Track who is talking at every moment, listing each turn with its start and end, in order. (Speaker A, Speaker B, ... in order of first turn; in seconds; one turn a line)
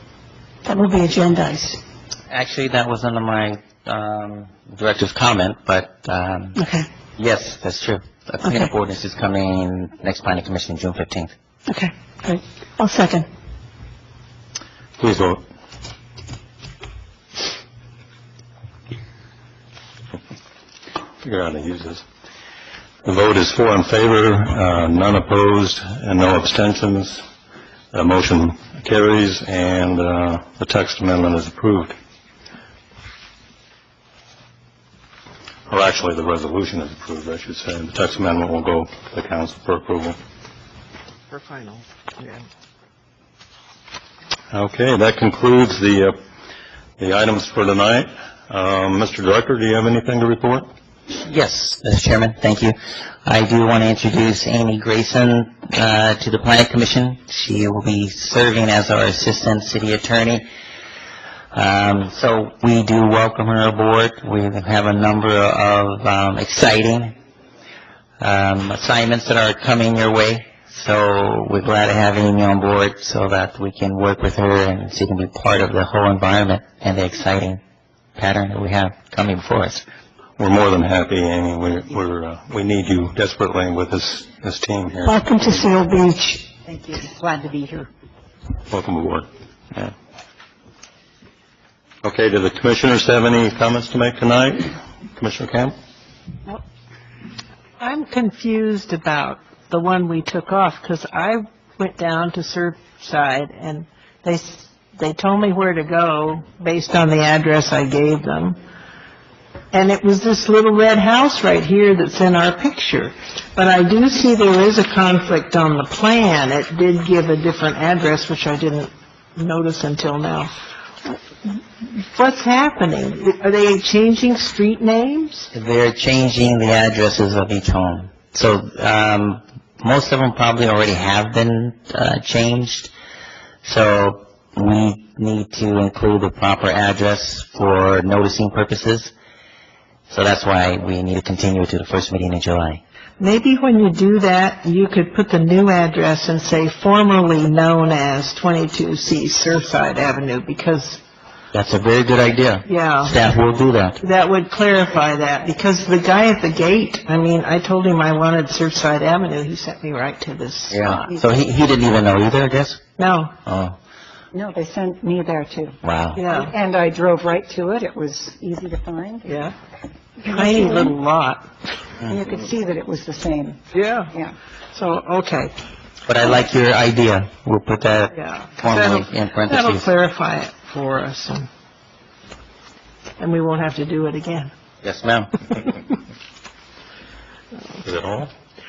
Speaker A: 0.7-1.8
Speaker B: 2.3-6.6
Speaker A: 6.6-6.9
Speaker B: 7.2-11.3
Speaker A: 8.4-8.7
Speaker A: 11.7-13.3
Speaker C: 15.0-15.4
Speaker C: 21.2-22.0
Speaker C: 23.0-27.2
Speaker C: 27.9-32.0
Speaker C: 35.7-40.2
Speaker D: 41.3-42.4
Speaker C: 44.5-46.2
Speaker C: 47.0-50.7
Speaker B: 51.2-52.8
Speaker B: 53.3-60.5
Speaker B: 61.5-67.2
Speaker B: 68.2-77.6
Speaker B: 78.2-79.8
Speaker C: 80.4-85.7
Speaker A: 85.0-86.5
Speaker E: 86.7-87.9
Speaker C: 88.7-89.9
Speaker C: 92.0-95.7
Speaker D: 97.8-108.6
Speaker D: 109.7-120.5
Speaker D: 121.1-125.5
Speaker B: 125.5-132.9
Speaker B: 133.7-139.1
Speaker B: 140.1-142.8
Speaker D: 143.2-151.0
Speaker B: 151.5-154.0
Speaker D: 152.7-153.2
Speaker D: 154.0-160.9
Speaker B: 160.7-162.8
Speaker D: 163.0-163.3
Speaker B: 163.5-163.8
Speaker E: 164.3-165.8
Speaker B: 165.8-166.2
Speaker D: 166.2-166.5
Speaker E: 166.3-169.3
Speaker D: 169.3-169.6
Speaker D: 170.2-171.5
Speaker E: 170.2-170.9
Speaker E: 172.1-173.6
Speaker D: 173.7-174.1
Speaker D: 174.7-175.6
Speaker B: 176.1-179.9
Speaker D: 178.2-181.5
Speaker D: 183.2-184.5
Speaker B: 184.8-185.8
Speaker C: 187.8-188.3